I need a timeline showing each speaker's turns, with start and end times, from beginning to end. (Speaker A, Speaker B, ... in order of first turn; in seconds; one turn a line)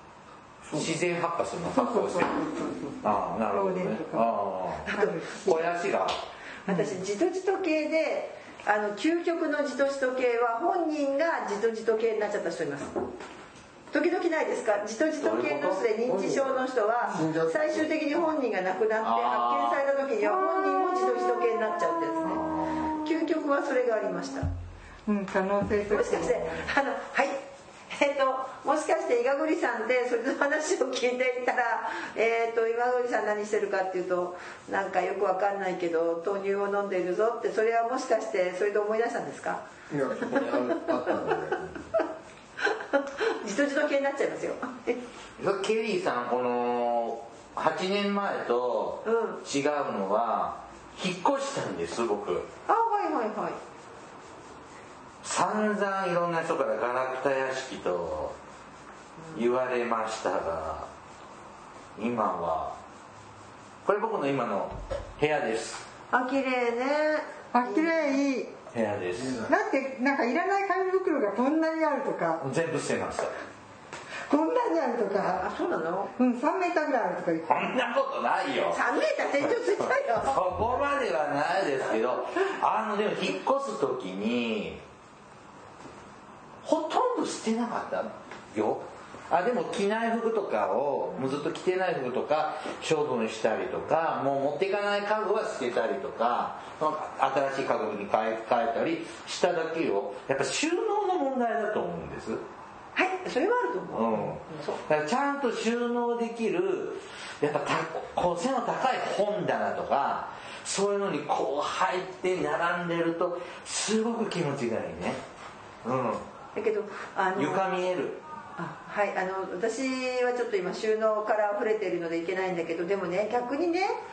Speaker A: 0.6-0.9
Speaker B: 0.7-2.3
Speaker C: 1.7-4.3
Speaker B: 3.0-6.2
Speaker D: 4.8-5.2
Speaker C: 4.9-5.7
Speaker C: 6.7-7.0
Speaker D: 6.7-12.9
Speaker D: 13.9-22.4
Speaker B: 15.2-15.9
Speaker A: 16.1-17.9
Speaker B: 19.0-19.8
Speaker C: 20.2-21.3
Speaker B: 22.2-23.0
Speaker D: 23.0-24.5
Speaker C: 25.1-26.6
Speaker D: 25.9-39.6
Speaker A: 39.9-41.8
Speaker D: 42.6-45.0
Speaker B: 45.4-52.5
Speaker D: 49.0-49.4
Speaker D: 52.7-53.6
Speaker B: 55.2-58.4
Speaker B: 59.3-60.9
Speaker B: 62.0-62.8
Speaker B: 63.9-65.9
Speaker D: 66.1-68.0
Speaker C: 67.5-68.5
Speaker B: 68.7-69.4
Speaker A: 69.2-69.5
Speaker C: 69.5-72.4
Speaker B: 72.4-73.3
Speaker C: 74.3-75.5
Speaker D: 75.3-76.1
Speaker C: 76.2-77.9
Speaker B: 77.5-78.8
Speaker D: 78.7-80.4
Speaker B: 80.2-84.8
Speaker B: 86.6-102.4
Speaker D: 103.0-104.8
Speaker B: 103.9-115.2
Speaker B: 115.8-116.2
Speaker D: 116.5-117.7
Speaker B: 117.3-118.2
Speaker D: 118.6-124.0